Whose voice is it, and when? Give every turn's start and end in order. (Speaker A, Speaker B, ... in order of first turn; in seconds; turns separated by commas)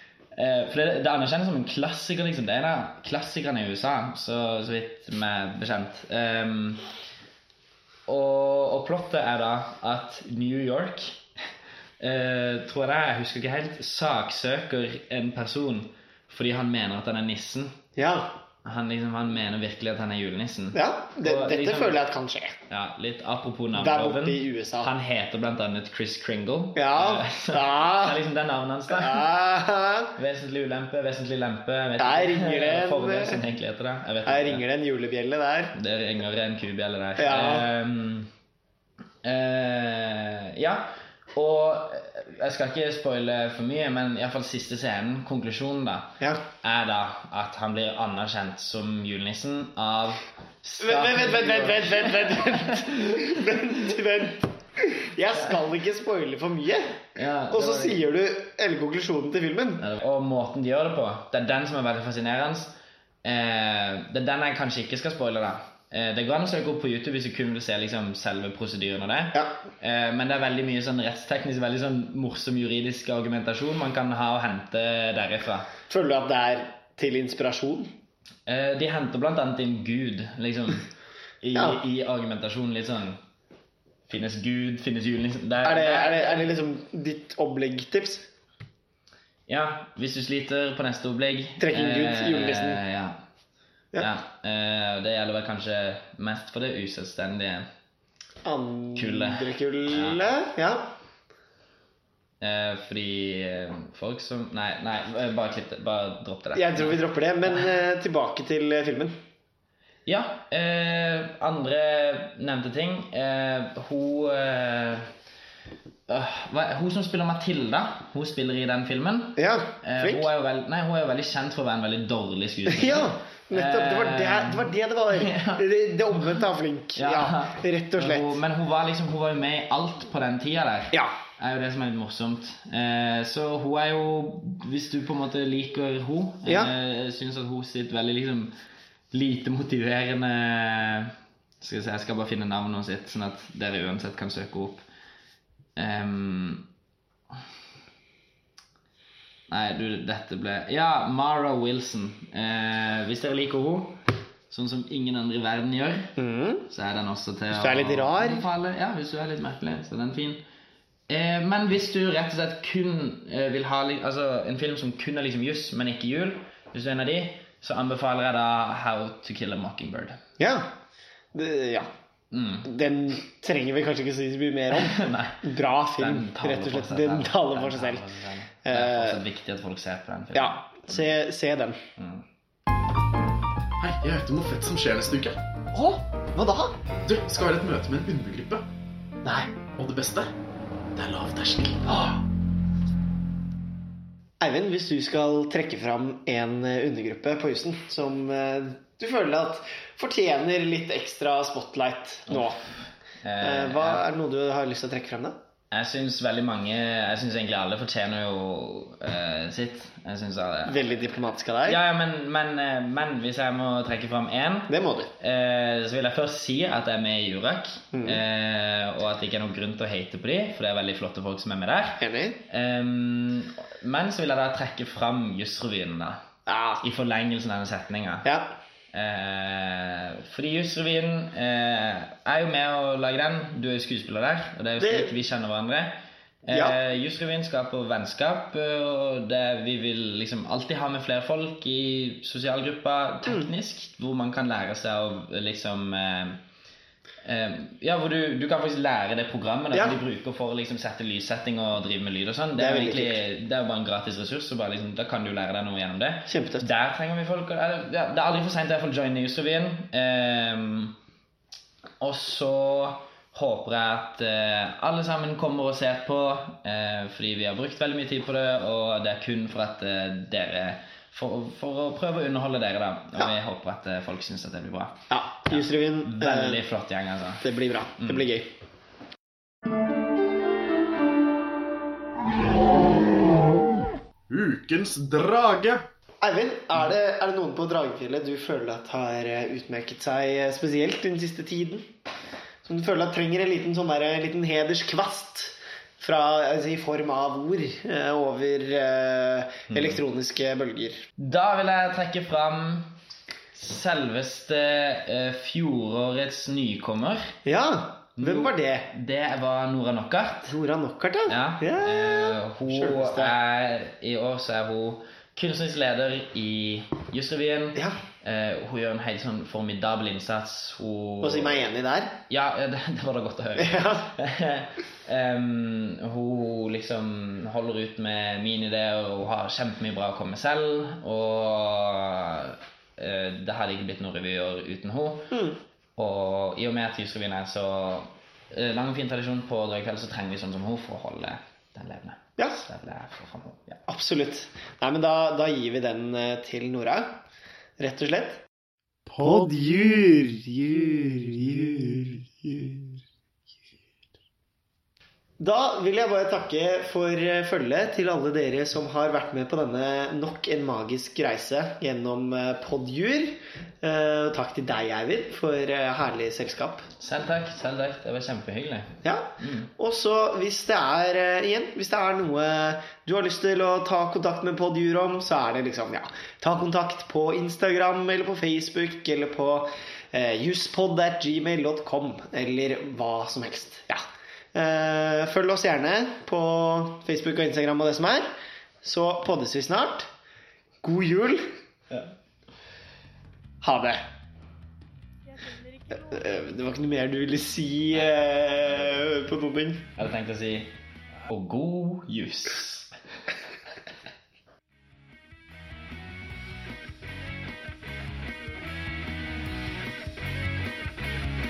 Speaker A: 0.3-6.8, Speaker A: 8.1-11.2, Speaker A: 12.0-17.8, Speaker B: 17.9-18.4, Speaker A: 18.6-22.0, Speaker B: 20.7-22.6, Speaker A: 22.7-29.3, Speaker B: 23.8-24.9, Speaker B: 26.8-28.2, Speaker B: 28.9-30.1, Speaker A: 30.1-34.6, Speaker B: 32.0-33.4, Speaker B: 34.2-35.8, Speaker A: 35.7-38.3, Speaker B: 37.2-37.7, Speaker A: 39.2-53.9, Speaker B: 50.8-59.8, Speaker A: 55.3-55.6, Speaker A: 57.1-58.0, Speaker A: 59.8-75.7, Speaker B: 75.9-77.9, Speaker A: 78.5-80.9, Speaker A: 81.4-83.2, Speaker B: 81.5-81.8, Speaker A: 84.1-86.5, Speaker B: 85.6-88.3, Speaker A: 89.5-93.2, Speaker B: 91.6-92.8, Speaker A: 94.0-97.7, Speaker B: 98.4-100.9, Speaker A: 98.9-100.2, Speaker A: 102.4-107.7, Speaker B: 106.5-109.2, Speaker A: 110.0-115.1, Speaker A: 116.1-126.4, Speaker B: 119.3-120.3, Speaker B: 122.7-128.4, Speaker A: 126.9-138.5, Speaker B: 136.4-136.7, Speaker A: 139.1-144.8, Speaker A: 145.8-146.7, Speaker A: 149.5-156.1, Speaker B: 156.2-156.7, Speaker A: 156.7-160.4, Speaker B: 157.5-158.4, Speaker A: 161.1-170.2, Speaker B: 170.4-170.7, Speaker B: 171.3-171.9, Speaker A: 172.3-172.7, Speaker B: 172.6-178.0, Speaker A: 174.7-181.1, Speaker B: 178.6-179.2, Speaker B: 180.3-181.8, Speaker A: 182.0-182.2, Speaker C: 183.8-185.4, Speaker B: 185.7-186.8, Speaker C: 187.1-188.6, Speaker B: 189.2-189.5, Speaker C: 189.8-190.3, Speaker C: 190.9-191.9, Speaker B: 194.4-202.6, Speaker A: 202.3-204.0, Speaker B: 203.4-205.3, Speaker A: 205.7-210.8, Speaker B: 210.7-211.8, Speaker A: 211.6-226.2, Speaker B: 214.7-215.1, Speaker B: 217.9-218.2, Speaker B: 222.0-222.4, Speaker B: 226.5-226.8, Speaker A: 226.8-228.3, Speaker B: 228.2-228.5, Speaker A: 228.9-246.4, Speaker B: 234.8-235.2, Speaker B: 236.5-236.8, Speaker A: 247.2-260.9, Speaker B: 249.7-250.0, Speaker B: 252.6-253.2, Speaker B: 256.3-256.7, Speaker A: 262.0-277.4, Speaker B: 275.1-276.6, Speaker B: 277.4-278.5, Speaker C: 284.3-285.9, Speaker B: 286.2-291.9, Speaker B: 292.6-301.1, Speaker A: 299.7-300.0, Speaker A: 301.2-302.9, Speaker A: 303.5-307.3, Speaker B: 307.4-308.9, Speaker A: 308.2-310.5, Speaker B: 310.5-313.3, Speaker A: 311.3-321.6, Speaker B: 317.7-318.0, Speaker B: 321.2-322.2, Speaker A: 322.3-335.3, Speaker B: 323.6-324.1, Speaker B: 335.3-335.6, Speaker A: 336.0-343.8, Speaker B: 343.9-347.2, Speaker B: 347.8-348.4, Speaker B: 349.1-352.7, Speaker B: 355.4-366.9, Speaker A: 367.0-369.7, Speaker B: 369.0-388.3, Speaker B: 388.8-390.1, Speaker B: 390.8-391.4, Speaker B: 393.6-394.0, Speaker B: 395.9-399.9, Speaker A: 399.9-400.7, Speaker A: 401.2-402.9